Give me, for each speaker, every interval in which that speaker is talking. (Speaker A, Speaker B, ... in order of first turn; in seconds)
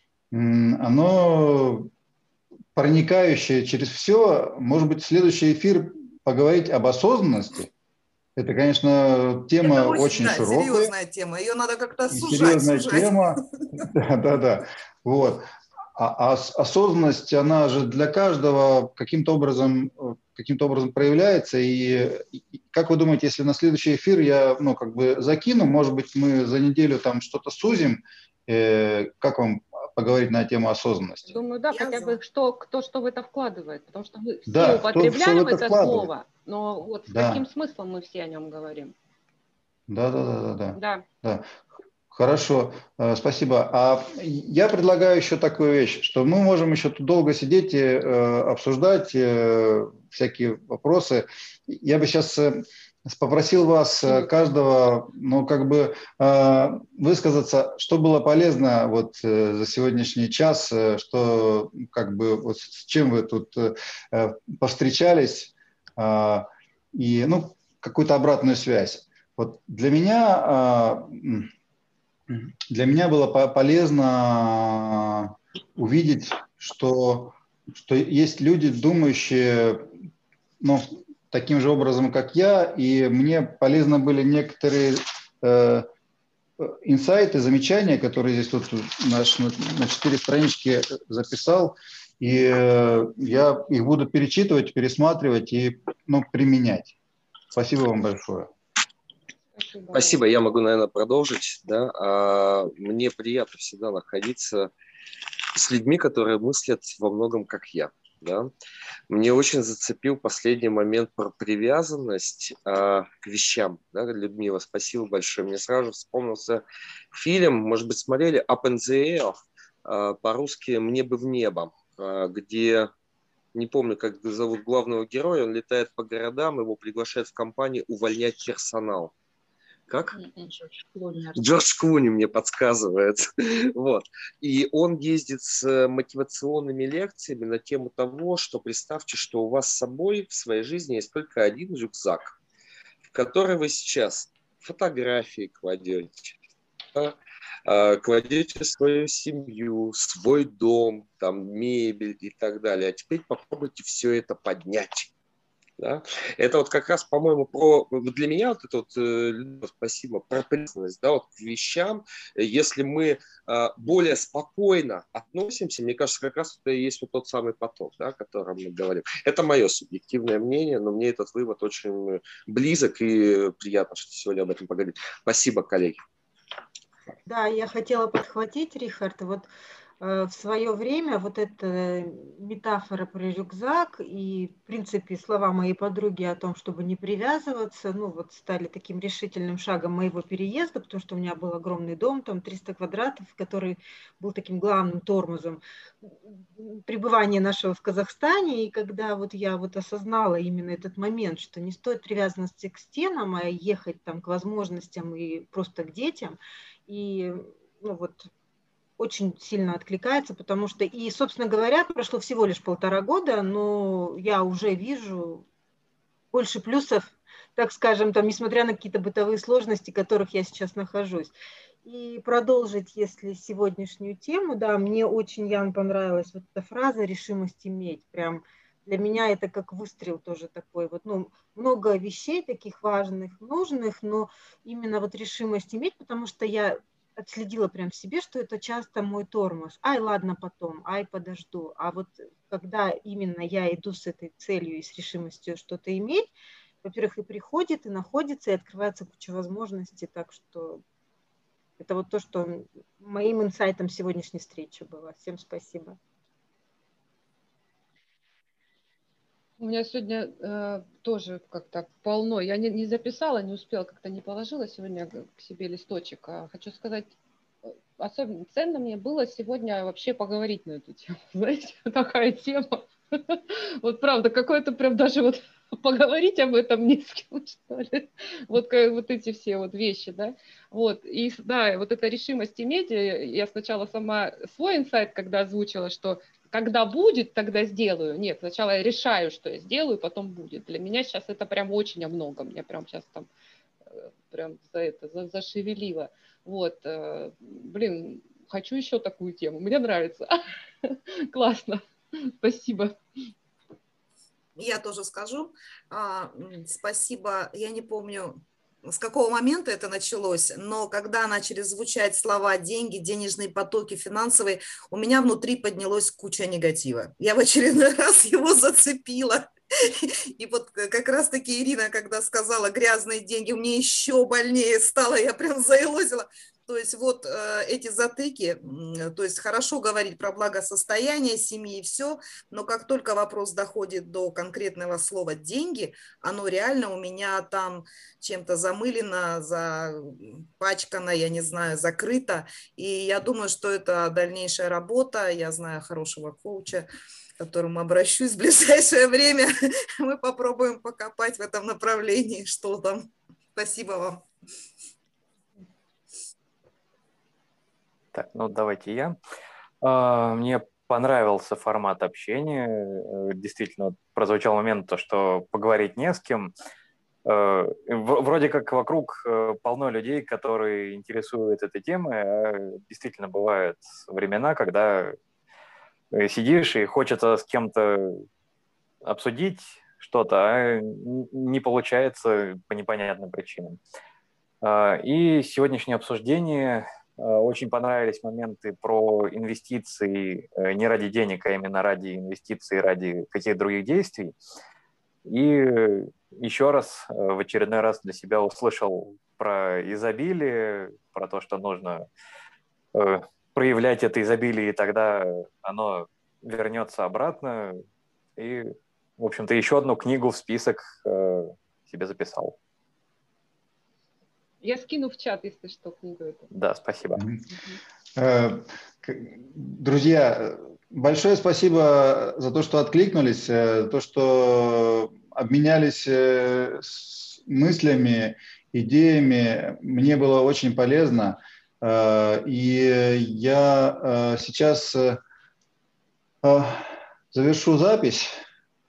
Speaker A: 0.3-1.9, 2.7-7.7, 8.3-10.9, 12.1-31.4, 34.5-36.1, 37.1-37.4, 39.9-41.5, 42.1-71.5, 72.3-79.9, 80.6-85.9, 86.6-96.9, 97.5-98.5, 417.1-417.4, 418.1-435.2, 436.4-438.3
Speaker B: 9.6-13.4, 31.7-32.2, 130.6-131.4, 304.6-354.2
Speaker C: 31.3-38.9, 40.8-41.0, 99.5-100.2, 130.1-130.5, 259.6-267.1, 267.7-293.3, 293.9-303.0, 414.6-416.5
Speaker D: 99.9-104.7, 105.5-108.5, 109.1-122.9, 123.5-129.1, 129.9-130.2, 131.3-142.4, 143.1-146.4, 146.9-155.1, 155.8-176.0
Speaker E: 177.2-179.5, 180.0-208.3, 209.0-215.4, 216.3-246.3, 246.8-250.8, 251.8-256.0
Speaker F: 358.1-359.2, 359.8-366.5, 367.2-375.2, 376.1-378.2, 379.0-383.8, 384.6-394.3, 395.2-402.1, 402.9-407.8, 408.4-412.6, 416.5-417.2